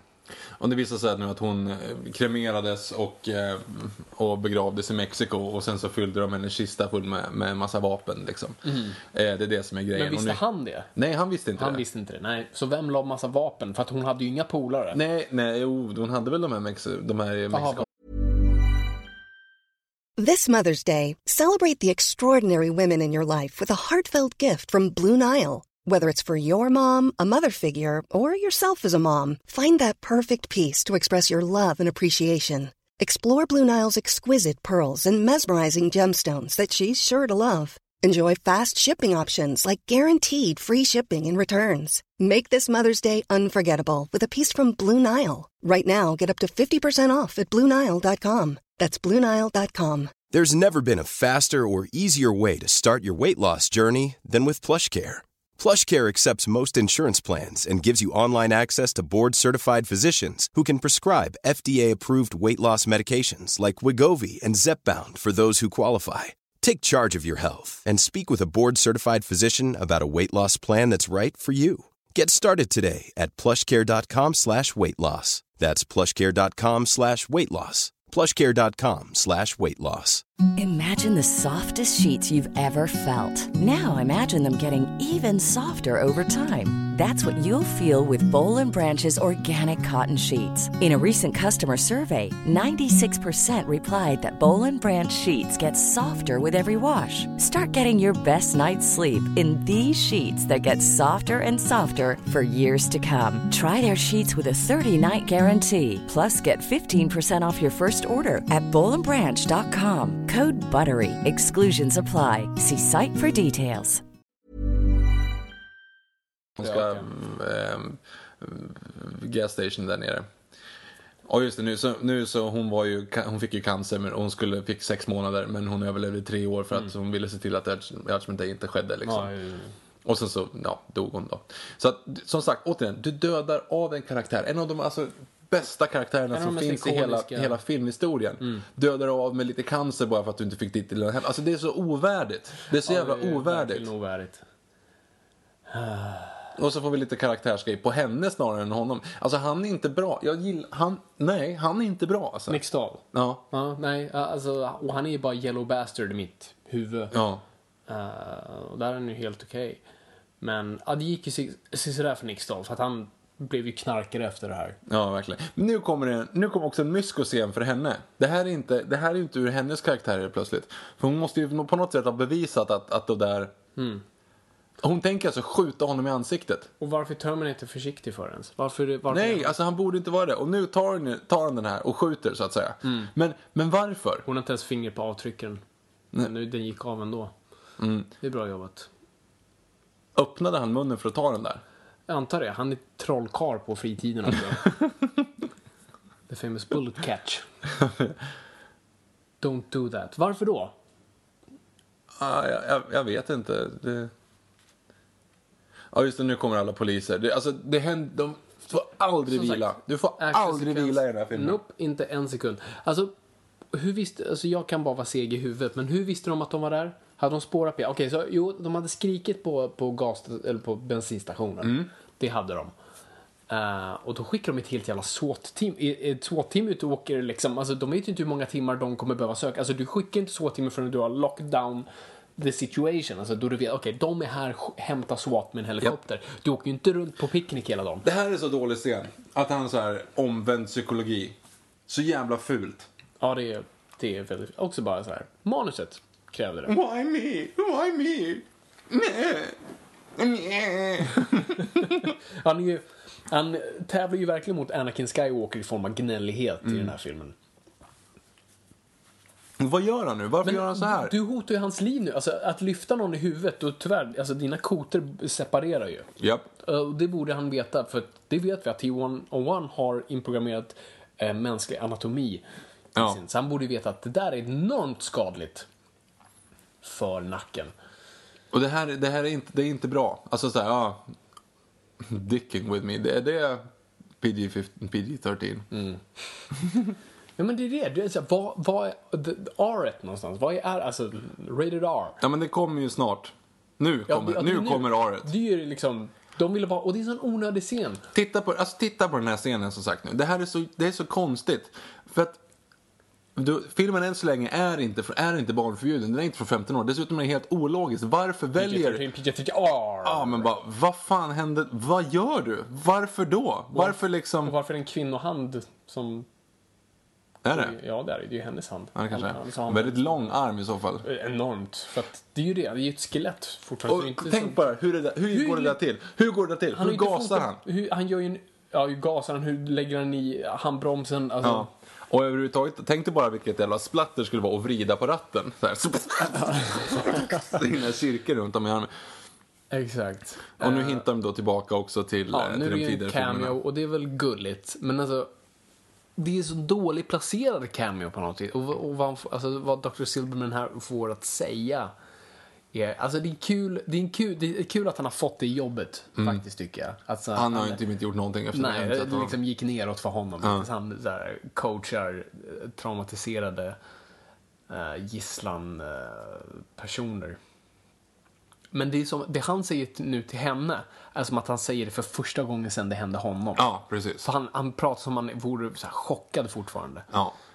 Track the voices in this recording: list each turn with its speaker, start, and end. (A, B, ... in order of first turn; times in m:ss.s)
0:00.6-0:10.4 A
0:08.6-0:09.0 B
0:09.9-0:10.9 B
0:11.0-0:11.8 A
0:11.6-0:15.0 B
0:14.9-0:17.9 A
0:17.5-0:17.8 B
0:20.2-0:50.3 C
0:50.2-1:20.2 D
1:20.6-1:54.0 E
1:56.6-2:00.3 A
1:56.6-1:57.1 B
2:01.3-2:09.3 A
2:09.0-2:09.7 B
2:10.0-2:23.9 A
2:16.3-2:17.6 B
2:22.8-2:24.4 B
2:25.7-2:26.5 B
2:26.6-2:32.6 A
2:32.5-2:37.2 B
2:33.1-2:33.4 A
2:37.1-2:37.4 A
2:37.9-2:39.8 B
2:40.4-2:44.8 B
2:44.9-2:53.6 A
2:53.8-2:54.0 B
2:54.8-2:56.7 A
2:56.8-2:59.5 B
2:59.1-3:04.2 A
3:02.8-3:03.1 B
3:04.2-3:05.6 B
3:06.2-3:07.3 B
3:07.8-3:08.1 A
3:08.2-3:08.9 B
3:10.2-3:11.6 A
3:12.1-3:14.7 B
3:16.3-3:17.5 B
3:17.8-3:18.1 A
3:19.4-3:20.7 B
3:22.2-3:24.1 A
3:25.9-3:31.6 A
3:29.3-3:33.1 B
3:33.7-3:42.7 B
3:41.6-3:41.9 A
3:43.5-3:51.9 B
3:52.4-3:58.1 B
3:58.0-4:01.4 A
4:01.9-4:02.9 A
4:03.2-4:06.7 B
4:06.7-4:09.6 A
4:10.2-4:12.1 A
4:11.6-4:17.3 B
4:19.6-4:21.2 A
4:20.4-4:26.1 B
4:26.2-4:26.5 A
4:26.6-4:32.4 B
4:33.0-4:35.7 B
4:36.8-4:37.7 B
4:38.5-4:41.1 A
4:42.0-4:43.7 A
4:44.2-4:45.7 A
4:45.7-4:46.0 B
4:47.4-4:52.2 B
4:52.2-4:55.3 A
4:54.1-4:58.0 B
4:58.1-5:02.4 A
5:03.4-5:09.0 A
5:08.6-5:10.5 B
5:10.0-5:14.6 A
5:13.7-5:16.3 B
5:17.4-5:17.8 A
5:17.5-5:20.3 B
5:19.0-5:21.0 A
5:21.0-5:24.6 B
5:23.9-5:27.6 A
5:25.3-5:25.8 B
5:26.7-5:31.7 B
5:31.4-5:38.9 A
5:36.4-5:37.3 B
5:39.7-5:41.0 B
5:40.6-5:43.6 A
5:42.3-5:45.3 B
5:46.2-5:51.9 B
5:52.7-5:57.8 B
5:57.3-5:59.4 A
5:58.5-6:03.8 B
6:04.7-6:07.4 B
6:08.7-6:17.1 B
6:13.6-6:14.2 A
6:17.1-6:17.4 A